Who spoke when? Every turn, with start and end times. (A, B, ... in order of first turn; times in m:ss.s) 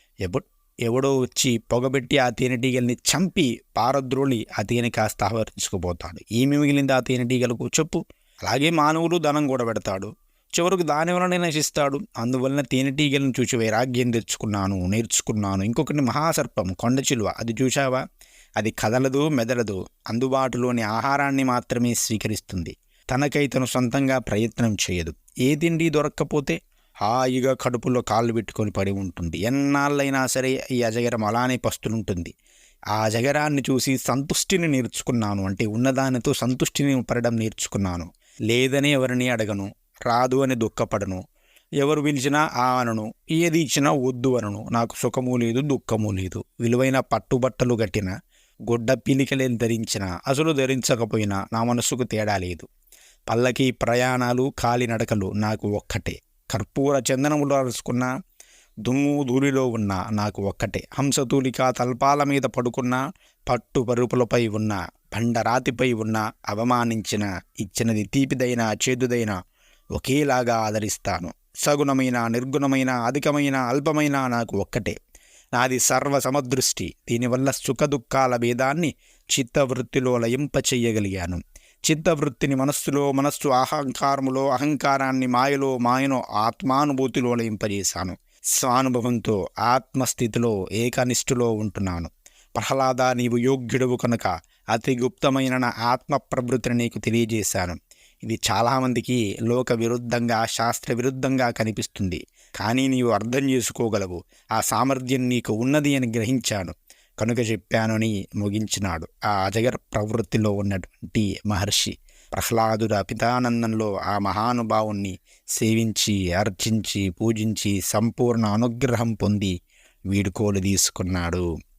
0:00.2-0:18.0 A
0:18.6-0:26.6 A
0:27.1-0:32.3 A
0:33.0-0:41.2 A
0:41.8-0:48.1 A
0:48.7-0:52.7 A
0:53.3-0:58.1 A
0:58.8-1:09.4 A
1:10.0-1:15.0 A
1:15.6-1:59.5 A
2:00.1-2:01.4 A